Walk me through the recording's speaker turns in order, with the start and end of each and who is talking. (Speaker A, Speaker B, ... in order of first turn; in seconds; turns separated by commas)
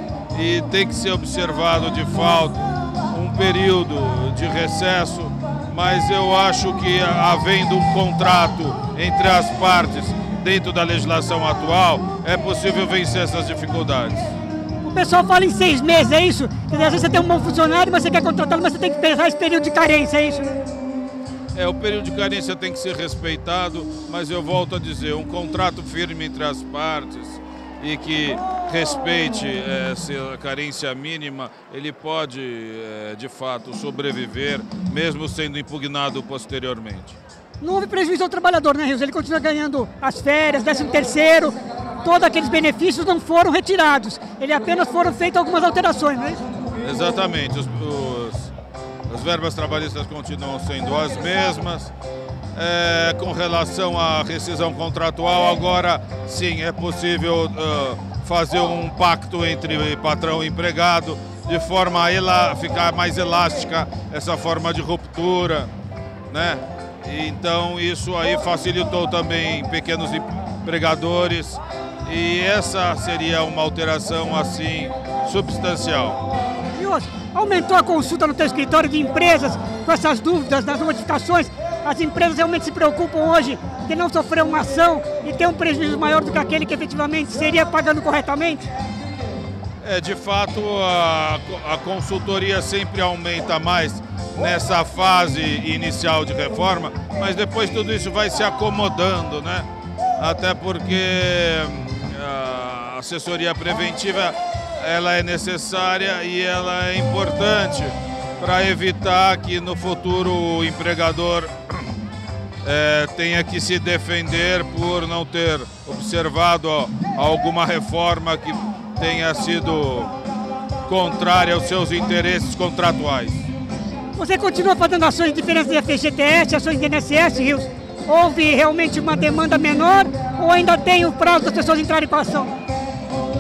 Speaker A: 0.3-14.3, Speaker B: 14.8-20.6, Speaker A: 21.5-37.2, Speaker B: 37.6-46.4, Speaker A: 46.8-48.5, Speaker A: 49.1-51.9, Speaker A: 52.5-65.7, Speaker A: 66.3-76.2, Speaker B: 76.8-88.7, Speaker A: 89.8-99.7, Speaker A: 100.2-111.5, Speaker A: 112.6-120.1, Speaker A: 120.9-123.5, Speaker B: 124.1-132.5